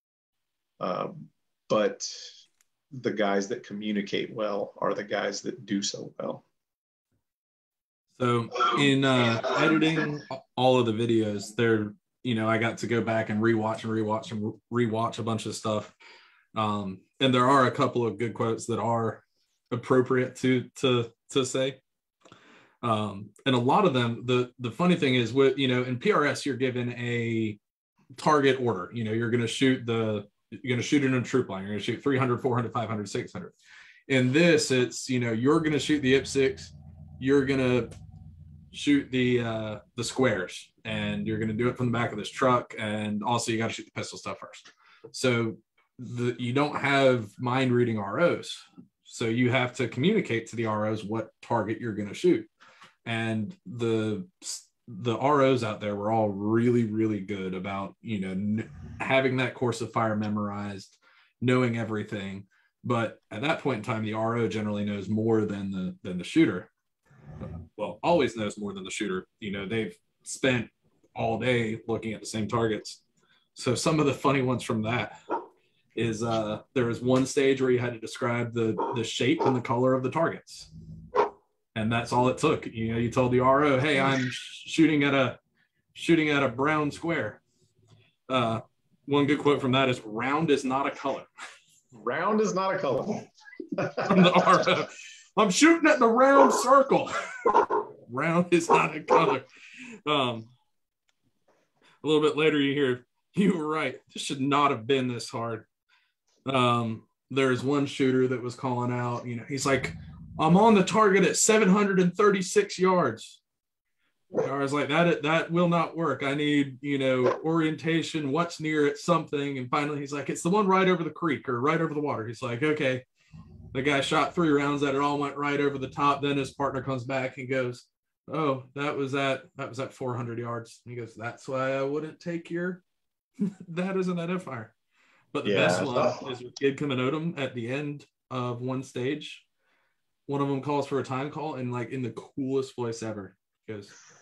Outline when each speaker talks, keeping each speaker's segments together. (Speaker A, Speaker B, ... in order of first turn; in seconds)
Speaker A: 0.8-2.4, 2.9-6.4, 91.9-94.3, 135.4-136.2
Speaker B: 8.2-15.9, 16.5-21.8, 22.8-27.6, 28.1-33.5, 34.1-37.9, 38.7-52.5, 53.0-66.7, 67.4-73.0, 73.5-75.2, 75.9-80.7, 81.7-85.4, 85.9-87.4, 88.3-91.3, 94.1-99.4, 100.0-100.5, 102.0-105.7, 106.4-113.4, 114.3-123.0, 123.7-132.8, 133.4-134.7, 135.3-139.4, 140.3-143.9